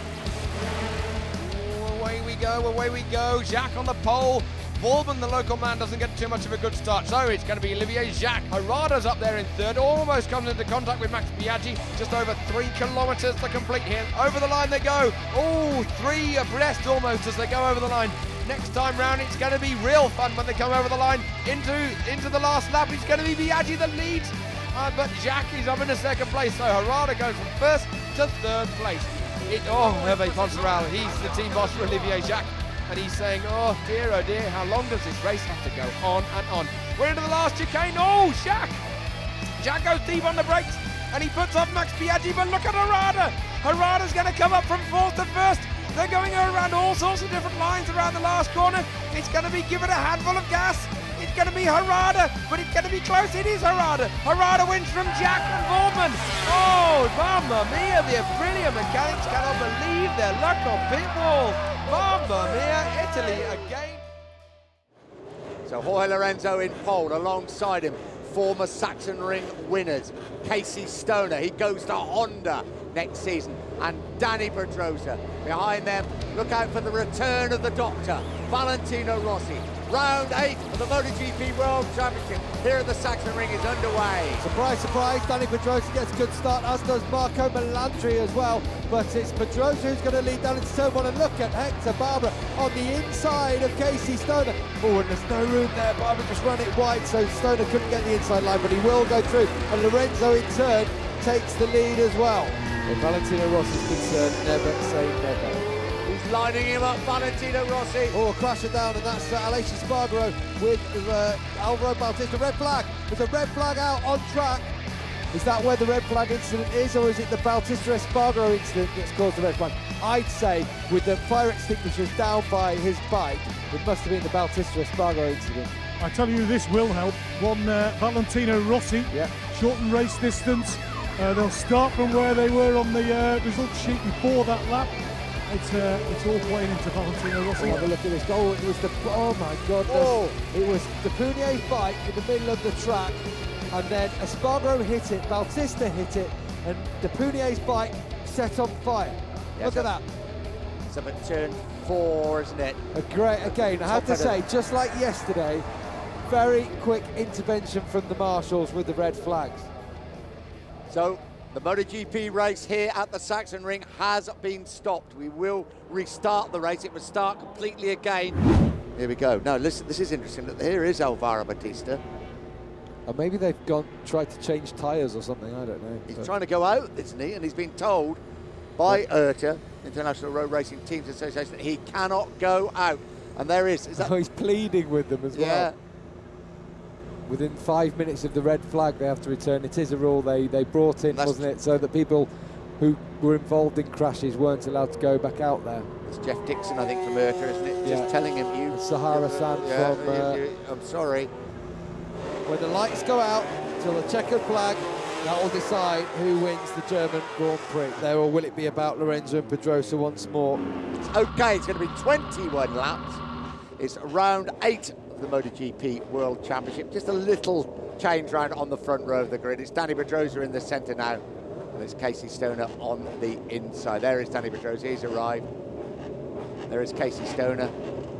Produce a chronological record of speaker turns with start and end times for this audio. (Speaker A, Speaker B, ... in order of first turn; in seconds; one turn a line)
Speaker A: 1.4-38.8
Speaker A: 39.6-64.0
Speaker B: 65.7-84.4
Speaker C: 84.4-105.6
Speaker B: 106.1-108.2
Speaker C: 108.1-114.7
Speaker C: 115.3-125.8
Speaker D: 126.0-137.9
Speaker C: 137.6-143.2
Speaker B: 139.9-140.4
Speaker C: 143.7-150.1
Speaker B: 149.6-149.9
Speaker B: 150.9-152.8
Speaker C: 152.9-155.7
Speaker B: 153.4-154.4
Speaker C: 156.3-159.7
Speaker B: 160.9-168.4
Speaker B: 169.0-172.0
Speaker C: 173.1-176.3
Speaker B: 176.1-178.2
Speaker B: 178.8-184.1
Speaker C: 184.0-185.7
Speaker B: 185.3-185.8
Speaker C: 187.3-195.9
Speaker B: 191.1-191.5
Speaker B: 196.1-201.3
Speaker C: 197.8-198.1
Speaker C: 198.7-200.4
Speaker C: 202.5-210.6
Speaker B: 211.1-213.2
Speaker B: 213.8-221.2
Speaker B: 221.8-225.5
Speaker B: 226.7-227.7